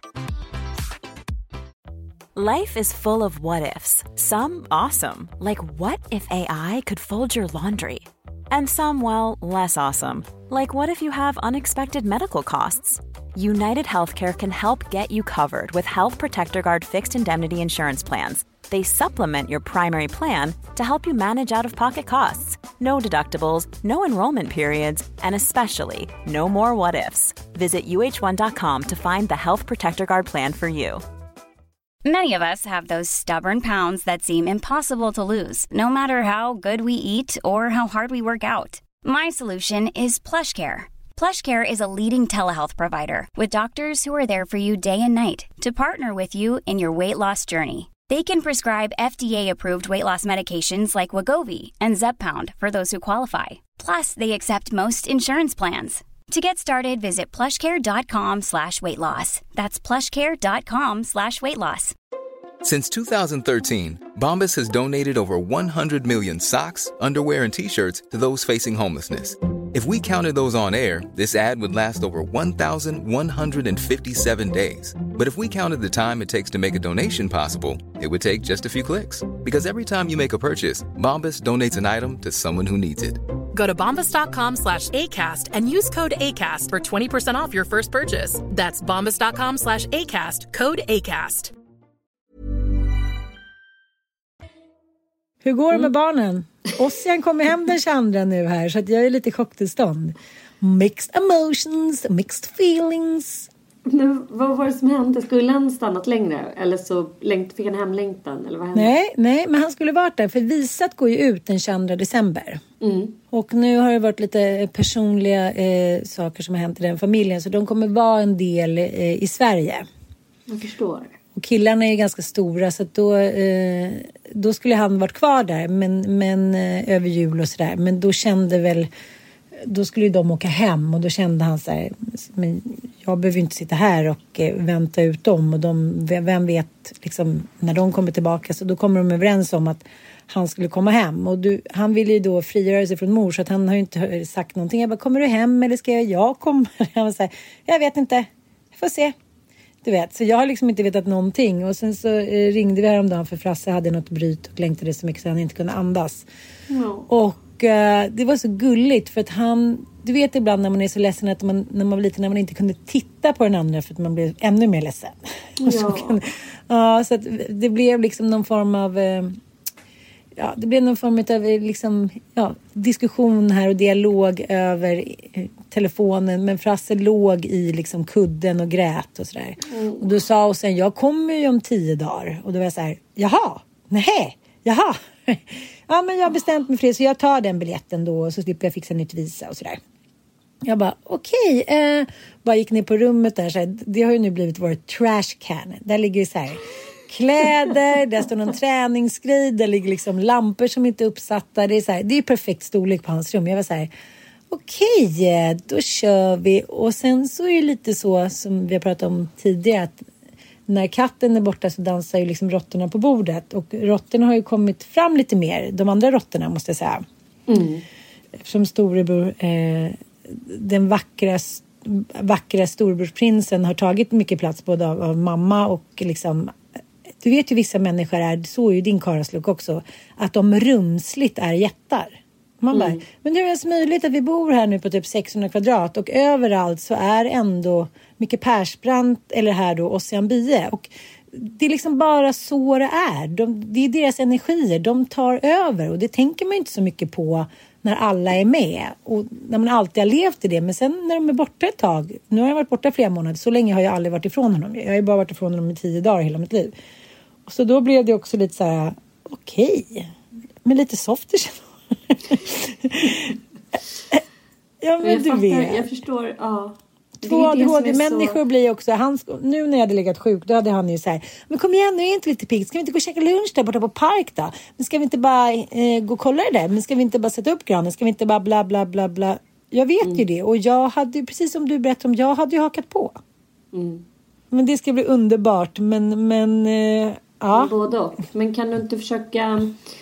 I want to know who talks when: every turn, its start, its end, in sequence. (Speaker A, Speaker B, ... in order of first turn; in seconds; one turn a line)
Speaker A: 2.4-31.0
Speaker B: 32.0-61.9
Speaker C: 62.6-83.2
Speaker D: 83.5-91.5
Speaker E: 95.4-103.5
Speaker F: 103.9-108.9
Speaker E: 108.7-112.6
Speaker F: 112.8-113.2
Speaker E: 113.3-119.9
Speaker F: 120.5-121.1
Speaker E: 121.4-128.9
Speaker E: 129.7-149.1
Speaker E: 149.8-156.3
Speaker F: 156.7-157.1
Speaker E: 157.1-169.4
Speaker F: 165.6-166.2
Speaker E: 170.4-189.8
Speaker F: 179.7-180.1
Speaker E: 190.6-203.9
Speaker E: 204.5-210.0
Speaker E: 210.7-217.0
Speaker F: 217.5-217.8
Speaker E: 218.4-226.6
Speaker E: 227.2-256.7
Speaker F: 232.7-233.0
Speaker E: 257.5-260.1
Speaker E: 260.6-263.4
Speaker E: 264.8-265.9
Speaker F: 265.0-268.4
Speaker E: 267.2-283.2
Speaker F: 283.7-284.0
Speaker E: 284.5-287.8
Speaker F: 287.5-289.7